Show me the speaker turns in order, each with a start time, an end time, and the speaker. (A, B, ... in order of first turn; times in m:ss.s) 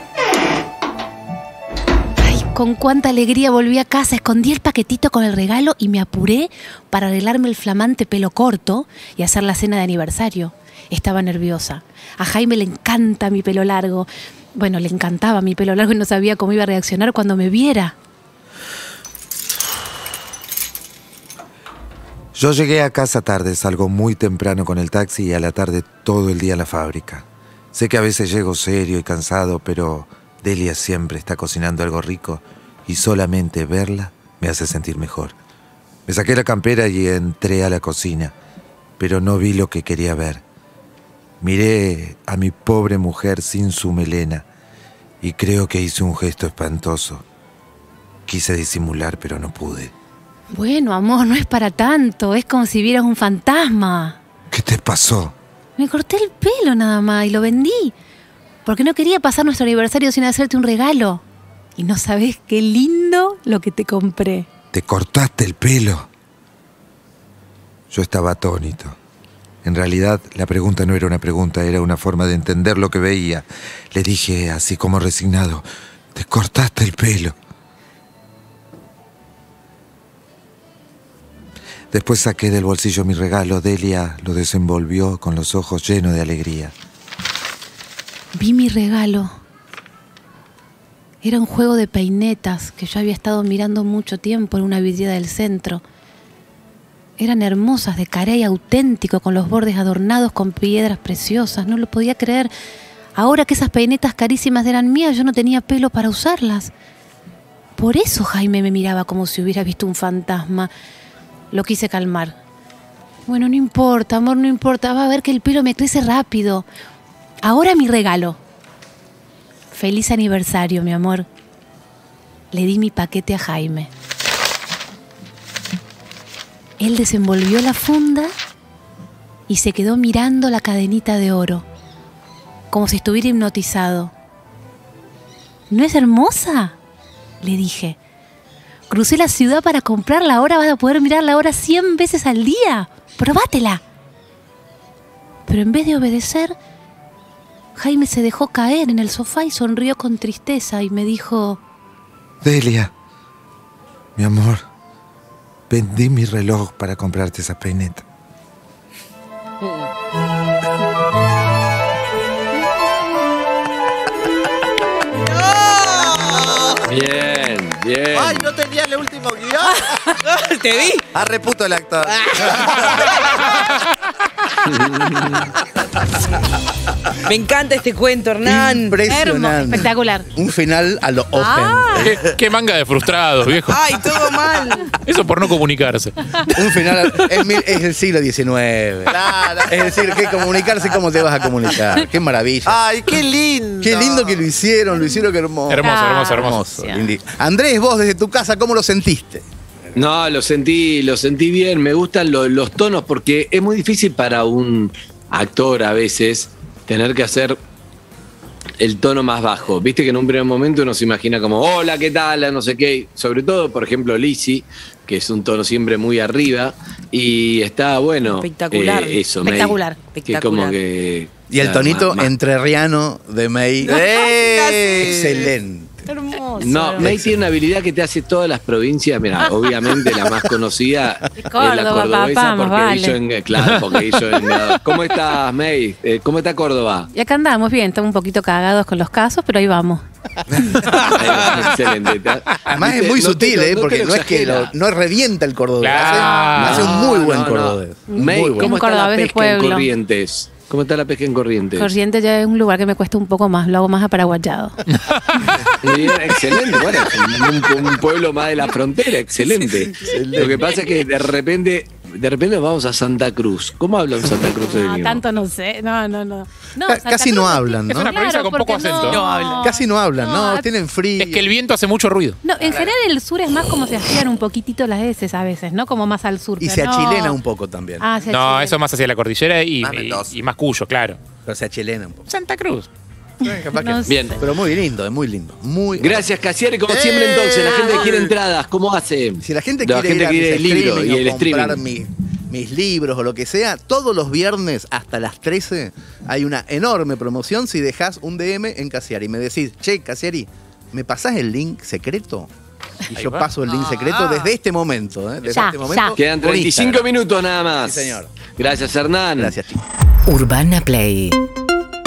0:02.2-0:18.0 A
0:22.4-0:35.4 B
0:36.1-0:38.3 B
0:39.0-0:40.4 B
0:41.4-0:44.5 B
0:45.2-0:47.2 B
0:48.3-0:49.9 B
0:50.5-0:54.2 A
0:54.5-0:55.4 B
0:55.8-0:58.0 A
0:58.6-1:01.2 A
1:01.8-1:04.5 A
1:04.7-1:06.1 B
1:07.9-1:09.0 B
1:09.6-1:15.6 B
1:16.2-1:17.4 B
1:21.9-1:26.7 B
1:28.3-1:29.3 A
1:31.2-1:35.8 A
1:37.2-1:42.5 A
1:43.2-1:46.7 A
1:47.8-1:50.7 A
1:51.5-1:52.4 A
1:53.3-1:56.7 A
1:57.4-1:58.4 A
1:59.7-2:01.3 A
2:02.5-2:03.9 A
2:06.8-2:08.3 A
2:09.5-2:11.6 A
2:12.7-2:14.1 A
2:15.7-2:16.8 A
2:17.4-2:18.0 A
2:18.9-2:23.8 A
2:25.5-2:26.6 A
2:27.8-2:31.6 A
2:32.4-2:32.9 B
2:34.2-2:34.6 B
2:35.7-2:38.0 B
2:45.4-2:46.4 C
2:46.9-2:48.6 D
2:48.8-2:49.5 E
2:50.4-2:51.0 C
2:51.1-2:52.1 E
2:52.7-2:53.1 F
2:54.7-2:55.5 D
2:57.3-2:59.0 C
2:58.4-3:02.2 G
2:59.1-3:00.3 A
3:02.0-3:03.8 F
3:03.7-3:04.9 C
3:05.1-3:06.5 F
3:06.6-3:13.2 G
3:12.7-3:13.9 E
3:13.8-3:19.4 G
3:15.7-3:16.6 F
3:15.8-3:17.1 A
3:20.0-3:27.6 D
3:28.8-3:42.3 D
3:38.2-3:39.2 C
3:39.4-3:40.0 A
3:40.1-3:40.8 C
3:41.5-3:44.0 G
3:43.9-3:45.4 C
3:43.9-3:44.2 D
3:44.9-3:46.0 G
3:46.1-3:47.1 C
3:46.6-3:57.1 D
3:47.0-3:47.4 G
3:51.4-3:53.2 A
3:57.1-4:00.0 A
4:00.6-4:01.0 A
4:01.0-4:04.7 D
4:02.7-4:08.7 G
4:05.8-4:06.9 F
4:06.1-4:06.8 A
4:06.6-4:11.9 D
4:08.1-4:09.9 A
4:11.8-4:14.8 A
4:15.8-4:25.2 D
4:20.0-4:20.7 G
4:24.7-4:30.7 A
4:26.9-4:28.2 G
4:28.0-4:29.2 F
4:29.1-4:29.6 C
4:29.6-4:31.5 G
4:31.2-4:32.4 F
4:32.4-4:37.4 A
4:36.6-4:38.1 G
4:38.0-4:38.8 A
4:38.3-4:41.2 F
4:39.8-4:40.2 E
4:41.5-4:42.2 G
4:42.3-4:42.9 F
4:43.4-4:46.2 G
4:43.7-4:44.2 A
4:44.1-4:44.4 D
4:46.0-4:51.8 D
4:49.4-5:02.5 G
5:03.1-5:07.1 G
5:03.2-5:03.5 F
5:05.5-5:06.2 A
5:06.2-5:09.6 D
5:07.8-5:08.3 G
5:09.4-5:09.8 G